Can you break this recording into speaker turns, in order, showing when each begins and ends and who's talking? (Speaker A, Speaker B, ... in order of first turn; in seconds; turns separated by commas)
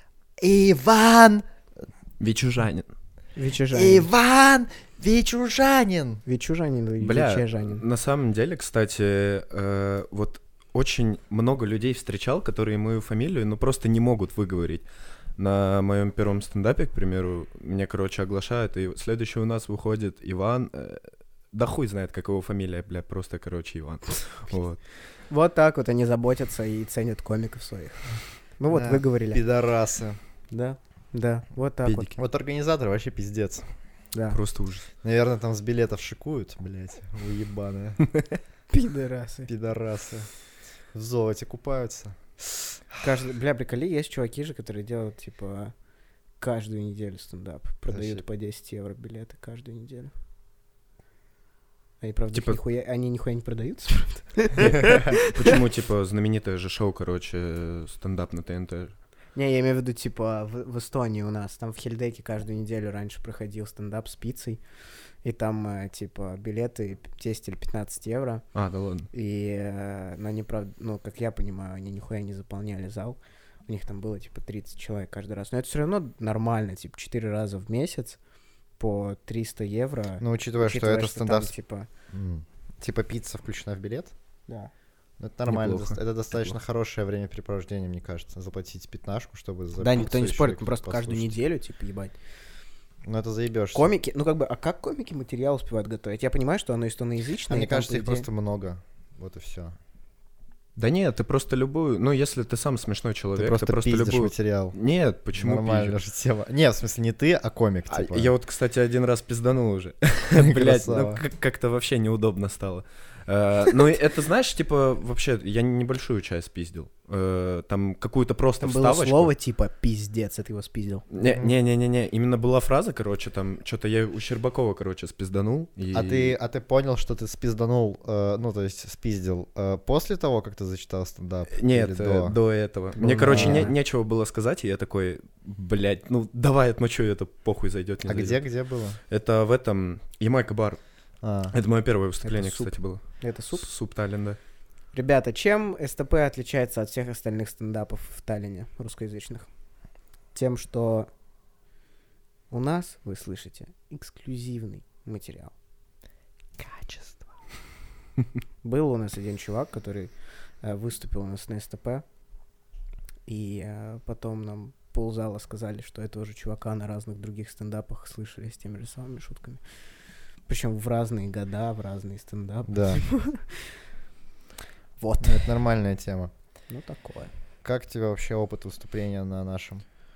Speaker A: 0.4-1.5, Speaker B: 2.2-2.9, Speaker C: 3.4-4.1, Speaker A: 3.7-6.2, Speaker C: 6.2-7.8, Speaker B: 7.0-14.8, Speaker B: 15.3-25.0, Speaker C: 25.3-29.4, Speaker A: 28.7-30.2, Speaker C: 30.5-32.1, Speaker B: 31.8-32.2, Speaker A: 32.2-33.7, Speaker C: 34.1-34.4, Speaker B: 34.3-34.9, Speaker A: 35.0-38.1, Speaker C: 38.7-39.5, Speaker A: 39.5-43.0, Speaker C: 43.0-45.7, Speaker C: 46.4-50.1, Speaker A: 47.9-48.2, Speaker C: 52.0-55.2, Speaker B: 55.2-59.0, Speaker C: 59.3-64.6, Speaker C: 65.2-68.4, Speaker B: 68.5-69.1, Speaker C: 69.1-78.2, Speaker C: 78.8-81.9, Speaker A: 80.2-81.5, Speaker A: 82.1-84.1, Speaker A: 85.2-91.4, Speaker B: 85.5-86.5, Speaker C: 89.8-92.2, Speaker A: 93.0-93.9, Speaker C: 93.7-98.3, Speaker A: 97.5-99.7, Speaker B: 100.8-106.0, Speaker A: 103.3-104.8, Speaker A: 105.3-108.3, Speaker B: 107.9-119.3, Speaker A: 110.4-111.2, Speaker C: 118.6-121.0, Speaker B: 121.1-126.3, Speaker A: 121.2-121.5, Speaker A: 125.9-132.4, Speaker B: 131.6-138.5, Speaker A: 133.0-133.7, Speaker C: 133.0-133.7, Speaker A: 138.0-139.0, Speaker B: 139.1-140.8, Speaker A: 141.2-141.5, Speaker B: 141.5-144.4, Speaker C: 142.2-143.6, Speaker C: 144.9-149.5, Speaker C: 150.3-151.1, Speaker C: 152.5-155.5, Speaker A: 156.6-157.2, Speaker C: 158.6-162.0, Speaker C: 163.3-169.6, Speaker C: 170.4-173.7, Speaker A: 172.7-173.0, Speaker C: 175.0-175.6, Speaker A: 175.2-176.3, Speaker C: 176.7-177.3, Speaker A: 177.6-179.8